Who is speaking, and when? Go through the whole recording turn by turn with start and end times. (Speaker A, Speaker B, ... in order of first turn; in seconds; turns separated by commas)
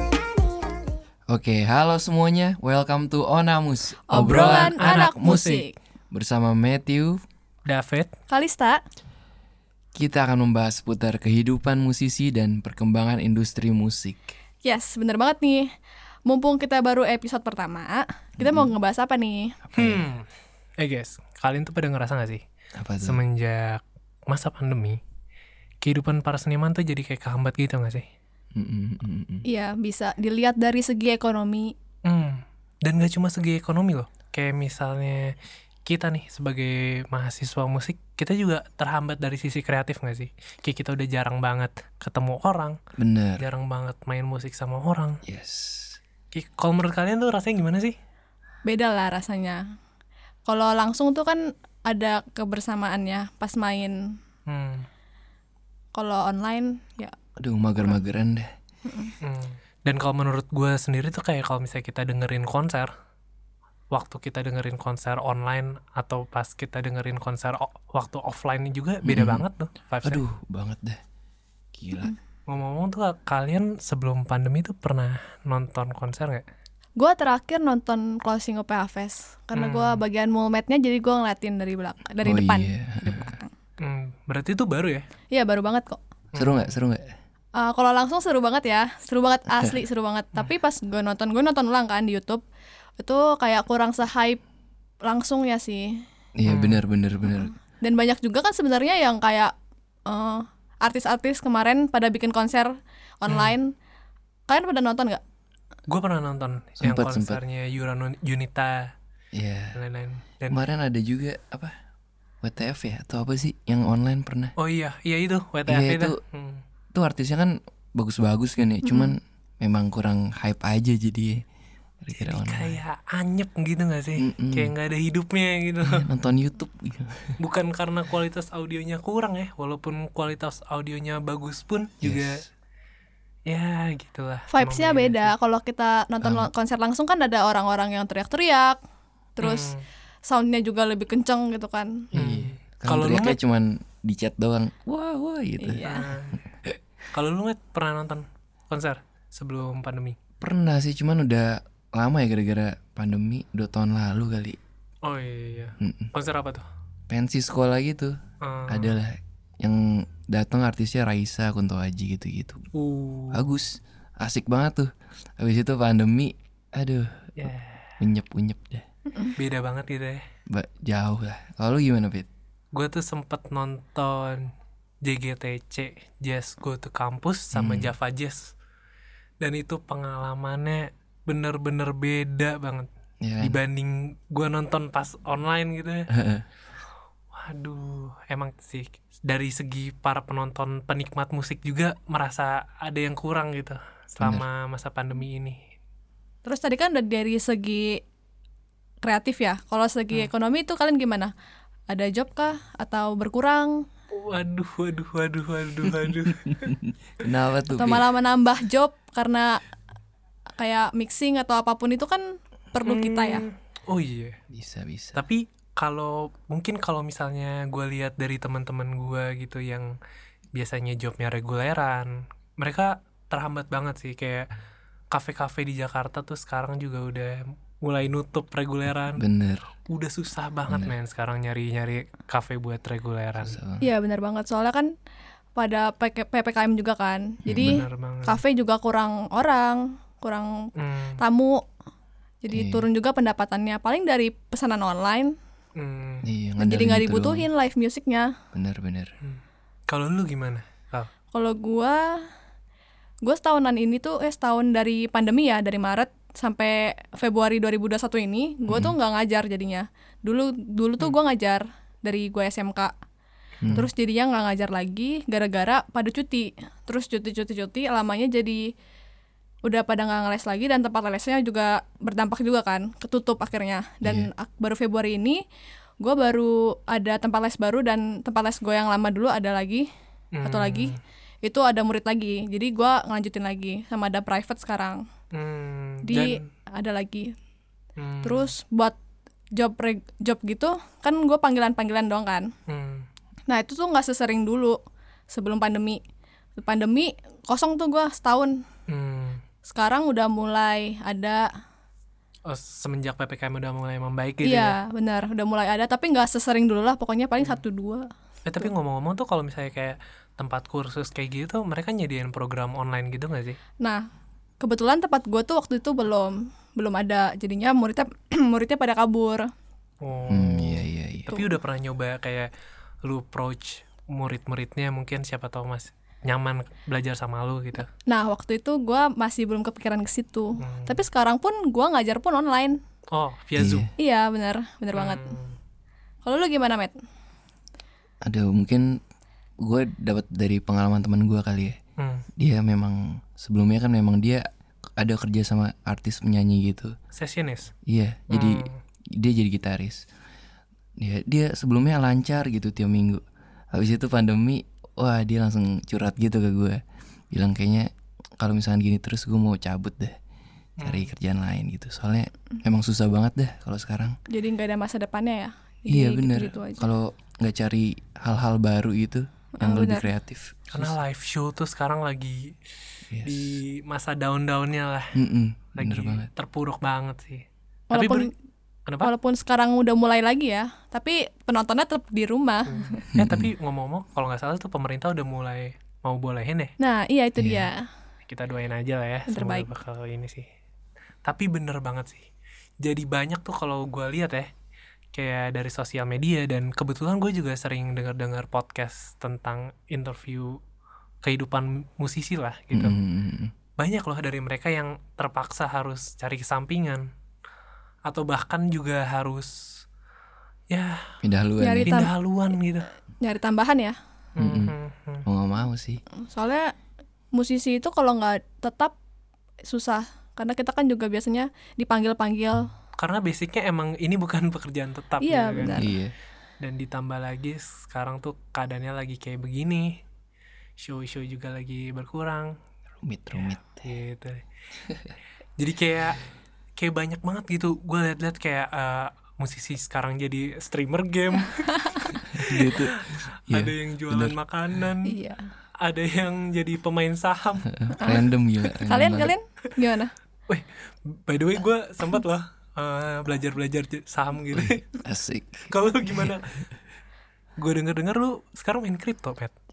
Speaker A: 1.3-5.5, Speaker B: 4.1-5.8, Speaker C: 4.1-5.7, Speaker A: 6.1-7.2, Speaker C: 7.7-8.1, Speaker B: 8.3-8.8, Speaker A: 9.9-14.4, Speaker B: 14.6-15.7, Speaker B: 16.3-19.6, Speaker A: 18.4-18.7, Speaker A: 19.6-20.1, Speaker C: 19.8-20.3, Speaker C: 20.8-22.4, Speaker A: 22.8-23.2, Speaker C: 23.0-25.0, Speaker C: 25.8-28.1, Speaker A: 28.6-29.4, Speaker B: 29.4-31.8, Speaker C: 32.0-42.8, Speaker A: 43.0-43.5, Speaker C: 43.4-45.2, Speaker A: 45.2-46.0, Speaker C: 46.3-48.0, Speaker B: 48.7-49.6, Speaker B: 50.5-54.2, Speaker C: 54.5-54.9, Speaker B: 56.0-57.1, Speaker A: 57.4-58.5, Speaker B: 58.9-59.1, Speaker C: 59.2-62.9, Speaker C: 63.9-70.2, Speaker A: 69.0-69.5, Speaker A: 70.0-71.0, Speaker A: 71.8-72.1, Speaker C: 72.5-76.4, Speaker B: 77.0-83.5, Speaker C: 79.5-80.0, Speaker A: 82.2-83.4, Speaker C: 83.8-85.1, Speaker B: 85.3-86.0, Speaker C: 86.3-86.7, Speaker A: 86.3-87.1, Speaker B: 87.6-92.4, Speaker B: 93.0-94.4, Speaker B: 95.0-96.0, Speaker A: 96.4-97.5, Speaker C: 96.5-96.8, Speaker B: 97.8-99.5, Speaker B: 100.1-103.8, Speaker C: 103.3-103.5, Speaker B: 104.5-105.2, Speaker C: 105.9-108.9, Speaker A: 106.8-107.4, Speaker A: 109.3-109.8, Speaker C: 109.8-110.7, Speaker A: 110.5-111.8, Speaker A: 112.4-114.5, Speaker C: 114.6-116.6, Speaker A: 115.7-116.2, Speaker A: 116.9-121.4, Speaker B: 118.8-119.2, Speaker A: 122.0-122.8, Speaker C: 122.1-126.1, Speaker A: 124.2-124.7, Speaker A: 125.8-127.4, Speaker C: 127.4-132.4, Speaker A: 132.0-132.5, Speaker C: 133.5-135.3, Speaker B: 134.5-138.8, Speaker A: 136.2-136.5, Speaker B: 139.4-139.7, Speaker C: 139.4-139.8, Speaker B: 140.3-142.1, Speaker A: 142.1-145.8, Speaker C: 142.1-143.4, Speaker B: 145.6-146.1, Speaker C: 145.8-146.4, Speaker C: 147.1-150.2, Speaker A: 150.4-154.6, Speaker C: 155.1-156.7, Speaker A: 155.8-156.1, Speaker A: 157.1-158.2, Speaker C: 158.4-159.0, Speaker A: 158.7-162.7, Speaker C: 162.7-163.5, Speaker A: 163.3-168.8, Speaker C: 167.4-168.0, Speaker C: 169.4-170.2, Speaker A: 170.5-172.3, Speaker C: 172.7-174.5, Speaker C: 175.0-178.5, Speaker A: 177.5-177.9, Speaker C: 179.4-182.9, Speaker A: 183.2-183.6, Speaker C: 183.4-186.1, Speaker A: 186.1-186.4, Speaker C: 187.3-195.6, Speaker A: 194.2-194.5, Speaker B: 196.4-198.0, Speaker B: 199.0-201.3, Speaker B: 201.9-203.9, Speaker C: 204.1-206.7, Speaker A: 205.9-208.1, Speaker B: 207.7-209.6, Speaker B: 210.6-213.4, Speaker C: 212.8-214.4, Speaker A: 214.5-215.2, Speaker C: 215.2-219.9, Speaker C: 220.6-224.5, Speaker C: 225.1-229.2, Speaker A: 229.2-229.7, Speaker C: 229.9-233.6, Speaker A: 230.7-230.9, Speaker A: 233.4-233.9, Speaker B: 233.8-234.9, Speaker B: 235.6-241.6, Speaker A: 237.4-237.8, Speaker C: 237.6-238.4, Speaker C: 240.8-241.2, Speaker B: 242.4-245.4, Speaker A: 242.5-242.9, Speaker C: 245.8-246.3, Speaker A: 246.2-247.5, Speaker B: 246.6-248.3, Speaker A: 248.5-249.1, Speaker C: 249.2-251.1, Speaker B: 251.3-252.2, Speaker B: 253.2-262.9, Speaker A: 258.7-258.9, Speaker A: 263.6-263.9, Speaker B: 263.7-268.7, Speaker B: 269.6-275.4, Speaker A: 274.0-274.3, Speaker B: 276.0-279.9, Speaker C: 280.3-281.0, Speaker B: 280.4-285.1, Speaker C: 285.3-286.4, Speaker B: 286.1-287.3, Speaker C: 288.0-288.5, Speaker B: 288.2-289.0, Speaker B: 289.6-292.5, Speaker C: 292.7-293.1, Speaker B: 293.5-294.8, Speaker B: 295.3-296.0, Speaker B: 296.6-298.6, Speaker C: 298.9-299.4, Speaker B: 299.7-301.5, Speaker C: 302.5-304.8, Speaker B: 304.4-308.7, Speaker C: 308.5-313.6, Speaker B: 314.6-319.5, Speaker C: 320.0-322.5, Speaker A: 320.3-321.4, Speaker C: 323.0-327.9, Speaker B: 328.1-332.8, Speaker C: 330.6-331.0, Speaker C: 333.1-333.9, Speaker A: 333.6-333.9, Speaker B: 334.0-335.4, Speaker C: 334.9-335.6, Speaker B: 336.2-336.9, Speaker A: 338.2-339.0, Speaker A: 339.6-341.8, Speaker C: 342.0-342.3, Speaker A: 342.4-344.4, Speaker A: 345.0-347.0, Speaker C: 347.1-347.7, Speaker A: 347.9-350.1, Speaker C: 348.3-348.8, Speaker A: 351.0-353.2, Speaker A: 353.7-356.8, Speaker A: 357.3-360.1, Speaker C: 360.8-361.1, Speaker A: 360.8-364.2, Speaker B: 364.3-366.9, Speaker A: 365.9-371.0, Speaker B: 369.6-370.1, Speaker C: 370.7-372.6, Speaker A: 373.1-373.6, Speaker C: 373.2-375.2, Speaker A: 375.1-376.3, Speaker C: 375.8-378.3, Speaker B: 377.9-378.3, Speaker C: 378.9-379.1, Speaker B: 379.0-383.0, Speaker C: 382.7-386.8, Speaker A: 383.1-383.5, Speaker B: 386.8-387.9, Speaker A: 387.4-387.7, Speaker C: 388.2-390.5, Speaker B: 389.3-389.7, Speaker C: 391.2-392.3, Speaker C: 392.8-394.5, Speaker C: 395.1-400.6, Speaker C: 401.2-403.0, Speaker A: 402.7-403.5, Speaker C: 403.8-407.1, Speaker C: 408.1-409.8, Speaker C: 410.7-411.1, Speaker A: 411.2-412.1, Speaker B: 411.6-412.1, Speaker C: 411.8-412.9, Speaker B: 413.2-414.0, Speaker C: 414.4-415.3, Speaker A: 414.4-414.7, Speaker A: 415.3-416.0, Speaker B: 416.2-416.7, Speaker B: 417.3-419.0, Speaker B: 419.7-422.7, Speaker C: 423.0-425.9, Speaker B: 425.2-425.9, Speaker A: 425.7-426.1, Speaker C: 426.6-430.0, Speaker C: 430.8-432.6, Speaker A: 433.0-433.9, Speaker C: 433.3-434.4, Speaker C: 435.6-445.1, Speaker B: 441.7-442.0, Speaker A: 442.3-444.4, Speaker B: 445.1-445.5, Speaker C: 445.8-447.9, Speaker A: 447.7-449.3, Speaker B: 448.0-448.2, Speaker B: 448.8-450.1, Speaker C: 450.5-454.9, Speaker A: 454.5-456.3, Speaker C: 455.7-456.6, Speaker C: 457.6-459.5